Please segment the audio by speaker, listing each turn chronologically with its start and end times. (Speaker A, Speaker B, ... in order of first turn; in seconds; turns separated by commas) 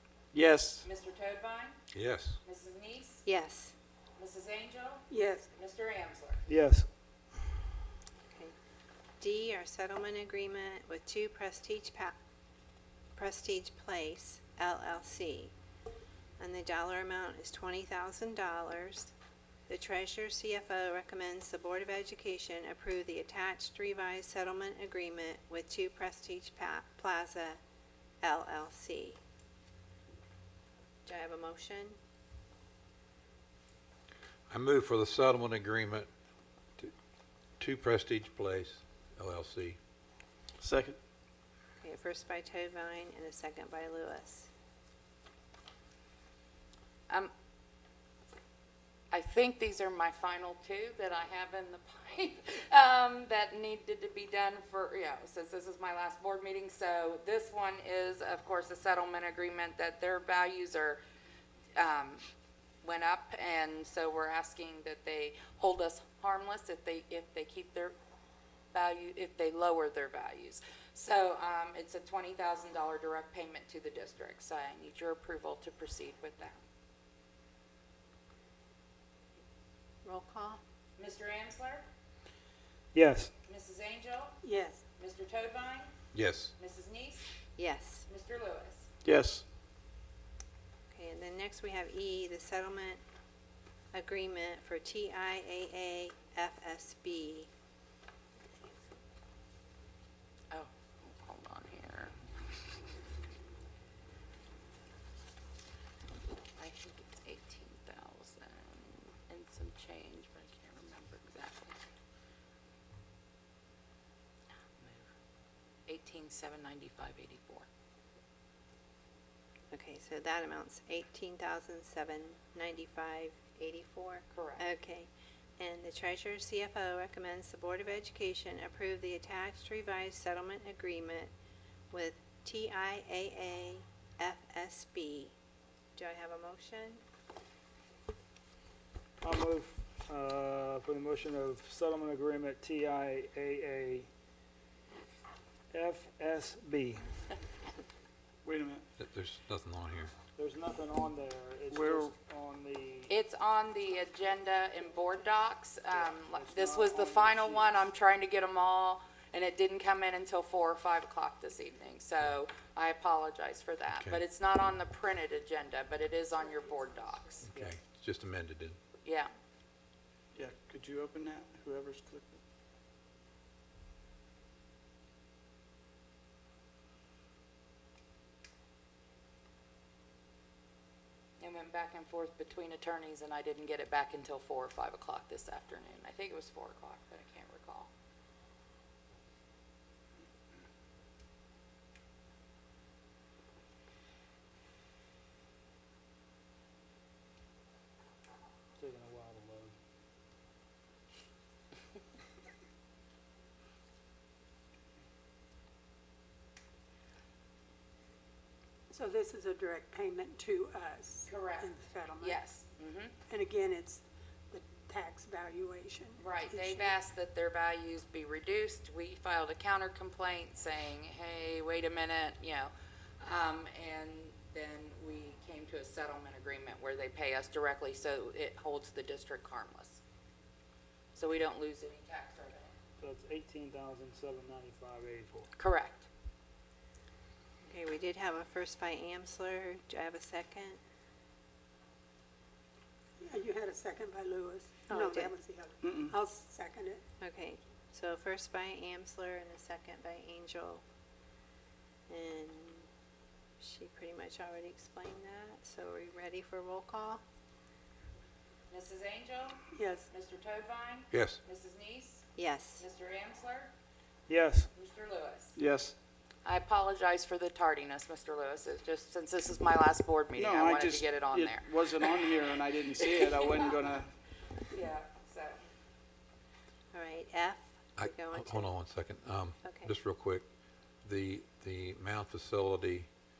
Speaker A: 0.3-0.9, Speaker B: 0.8-1.8, Speaker C: 1.9-2.4, Speaker B: 2.4-3.2, Speaker D: 3.2-3.7, Speaker B: 4.2-5.0, Speaker E: 5.1-5.5, Speaker B: 5.5-6.4, Speaker F: 6.5-6.9, Speaker D: 9.2-12.1, Speaker D: 13.2-15.5, Speaker D: 16.4-19.1, Speaker D: 19.7-27.6, Speaker D: 28.2-29.2, Speaker D: 31.1-32.0, Speaker C: 34.5-36.1, Speaker C: 37.6-39.8, Speaker A: 40.6-41.0, Speaker D: 41.8-44.5, Speaker B: 49.1-61.0, Speaker B: 61.8-62.2, Speaker B: 62.8-68.0, Speaker B: 68.7-76.6, Speaker D: 80.0-80.6, Speaker B: 81.0-81.8, Speaker F: 82.9-83.3, Speaker B: 83.5-84.3, Speaker E: 84.4-84.8, Speaker B: 85.0-85.9, Speaker C: 86.1-86.5, Speaker B: 86.6-87.2, Speaker D: 87.6-88.0, Speaker B: 88.0-88.8, Speaker A: 89.0-89.4, Speaker D: 90.9-93.0, Speaker D: 93.9-97.5, Speaker B: 100.5-102.1, Speaker B: 106.6-111.8, Speaker B: 114.8-115.0, Speaker B: 115.9-117.7, Speaker D: 119.7-131.3, Speaker B: 124.3-124.7, Speaker D: 131.9-135.3, Speaker D: 135.9-137.0, Speaker F: 139.2-144.1, Speaker F: 145.7-147.1, Speaker A: 148.4-148.8, Speaker C: 149.0-150.1, Speaker F: 150.3-153.1, Speaker A: 151.7-152.1, Speaker B: 153.1-167.4, Speaker F: 155.9-157.8, Speaker C: 163.9-164.2, Speaker E: 166.3-167.5, Speaker F: 167.5-167.7, Speaker C: 167.6-168.8, Speaker B: 169.0-169.3, Speaker A: 170.3-172.4, Speaker B: 181.4-187.9, Speaker F: 198.8-199.7, Speaker E: 208.9-212.4, Speaker B: 211.2-211.7, Speaker B: 212.2-213.1, Speaker E: 213.3-216.9, Speaker B: 216.2-230.0, Speaker B: 231.1-232.7, Speaker F: 233.0-235.5, Speaker B: 235.6-236.0, Speaker D: 237.6-240.8, Speaker E: 243.2-247.0, Speaker D: 244.8-245.4, Speaker A: 245.8-246.2, Speaker D: 247.2-250.8, Speaker D: 252.1-252.9, Speaker D: 253.6-257.2, Speaker B: 258.7-262.2, Speaker E: 259.7-260.1, Speaker C: 261.1-261.4, Speaker D: 262.4-262.9, Speaker B: 262.8-263.7, Speaker F: 264.3-264.7, Speaker B: 264.7-265.6, Speaker A: 265.6-265.9, Speaker B: 266.4-272.4, Speaker A: 270.3-274.1, Speaker B: 273.1-273.6, Speaker B: 274.7-275.6, Speaker D: 276.9-278.7, Speaker C: 278.0-280.4, Speaker D: 279.6-279.9, Speaker C: 281.0-283.1